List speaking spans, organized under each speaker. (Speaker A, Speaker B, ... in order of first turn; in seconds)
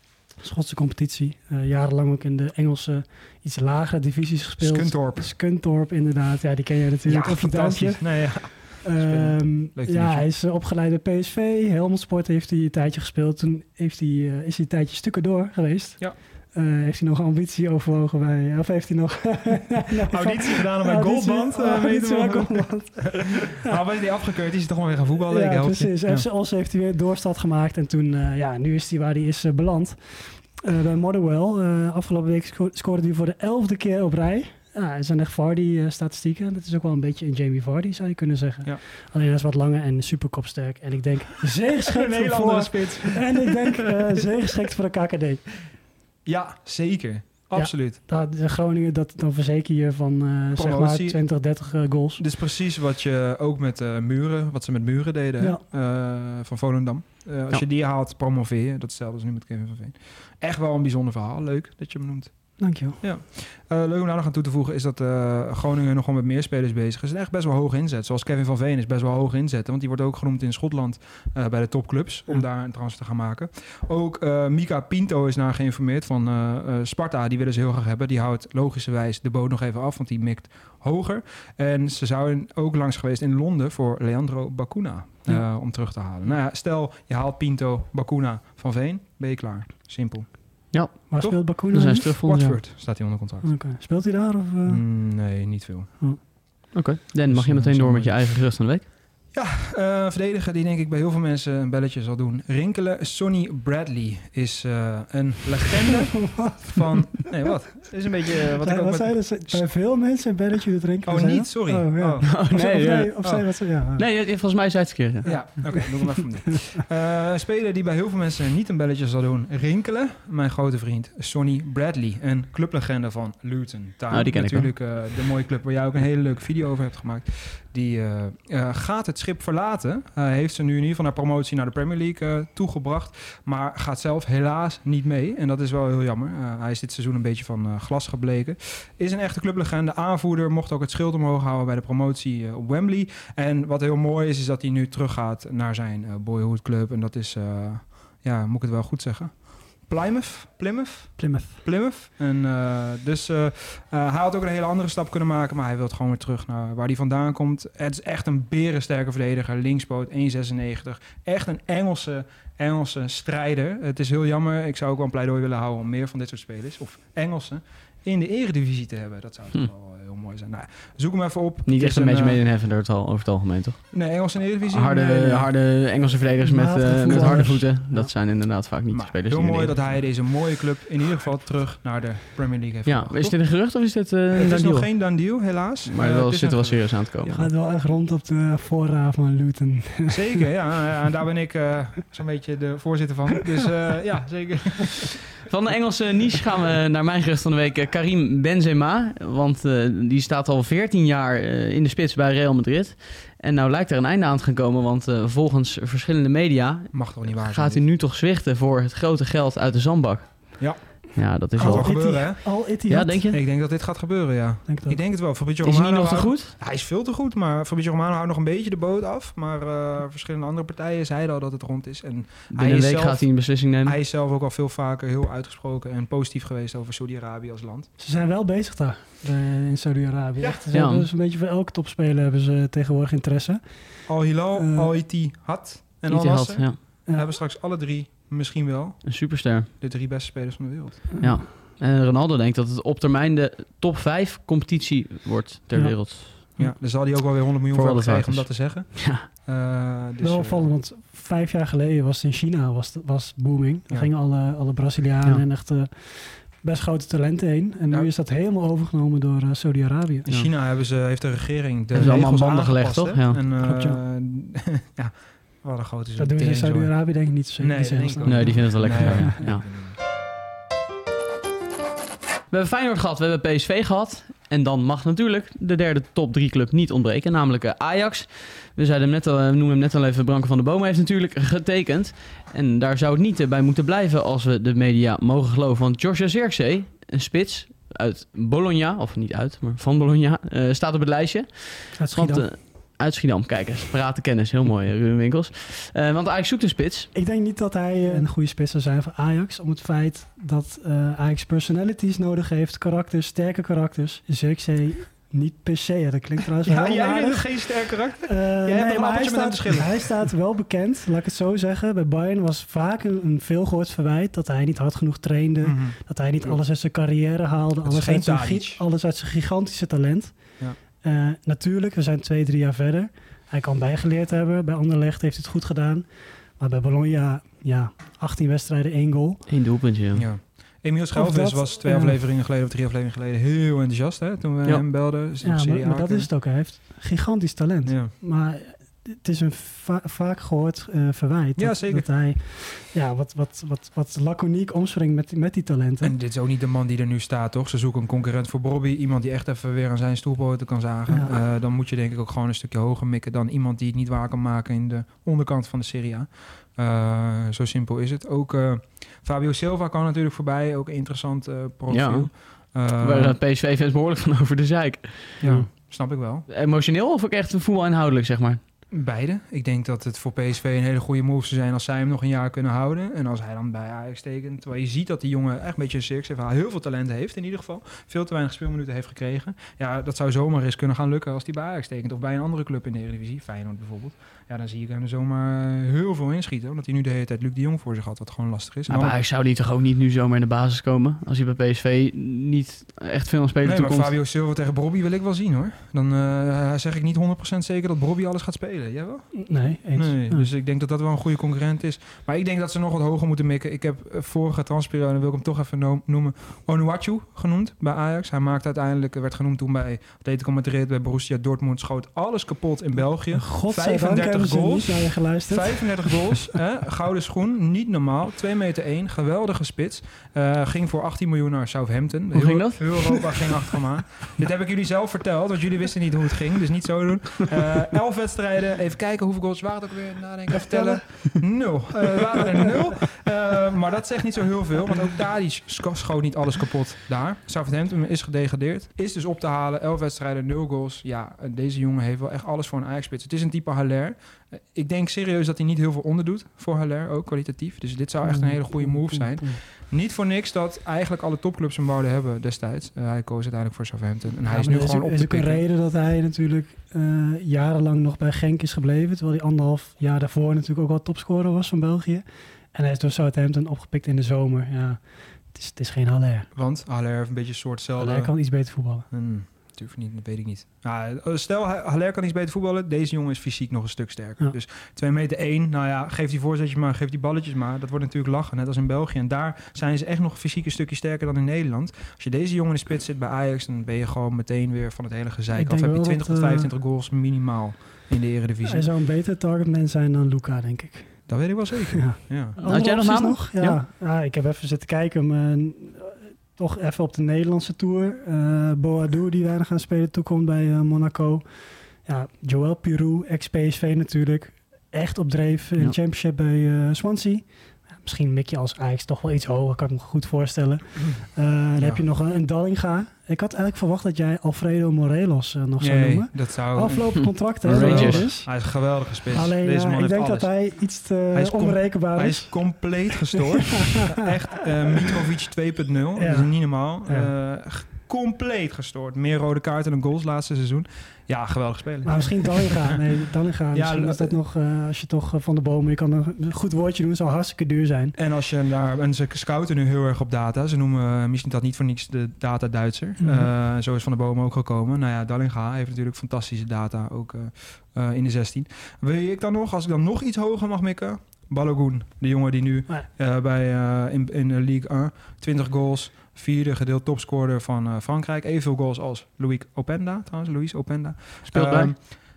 Speaker A: 0.4-23.8, 25.3-45.5, 47.5-52.2, 62.6-63.0, 91.1-92.6, 93.4-94.8, 106.1-107.3, 108.6-114.0, 115.3-115.8, 151.2-151.6, 176.4-178.1, 187.3-190.5, 211.6-213.3, 214.7-215.0, 228.0-233.6, 234.5-234.9, 241.2-241.4, 245.7-246.4, 250.2-260.3, 263.6-264.0, 266.2-269.4, 292.0-292.5, 297.1-307.7, 308.2-320.4, 321.0-326.1, 326.6-329.4, 331.1-332.2, 335.4-346.1, 351.1-351.3, 399.3-400.5, 413.3-416.5, 430.7-431.0, 448.2-449.6, 454.4-466.5, 468.0-469.1, 485.5-486.7, 488.6-501.5, 502.0-518.7, 519.3-524.1, 526.2-527.3, 532.0-538.1, 543.2-543.5
Speaker B: 4.6-5.3, 7.0-10.3, 20.1-26.3, 41.9-44.2, 46.2-48.0, 50.5-51.2, 52.2-90.7, 91.2-93.5, 94.6-95.9, 97.3-98.5, 99.3-109.7, 111.0-112.4, 115.2-172.4, 173.9-175.5, 178.9-183.4, 184.3-187.5, 190.1-195.1, 206.9-207.8, 210.6-212.7, 213.3-227.9, 230.4-230.7, 234.1-241.1, 246.6-250.7, 260.2-269.9, 306.6-310.3, 315.6-316.6, 317.8-318.8, 330.1-336.3, 337.8-338.1, 341.6-342.1, 346.0-363.4, 365.4-366.5, 368.9-389.2, 393.6-455.6, 466.5-468.3, 469.1-488.9, 491.3-492.6, 511.8-512.0, 515.8-520.7, 521.3-533.0, 533.7-534.3, 538.1-562.0
Speaker C: 90.7-92.5, 96.7-98.9, 112.2-113.3, 114.0-115.7, 124.1-124.7, 171.7-173.8, 174.6-179.8, 182.8-184.9, 185.8-187.3, 195.4-212.3, 212.9-213.4, 215.6-216.5, 222.5-224.0, 230.7-231.1, 236.1-236.8, 239.0-239.7, 241.2-246.6, 247.7-249.3, 261.9-263.4, 268.2-269.6, 272.5-297.1, 329.5-330.3, 361.9-362.3, 363.0-365.4, 366.5-368.6, 388.9-394.1, 422.3-423.4, 492.6-493.8, 517.6-518.3, 561.5-561.9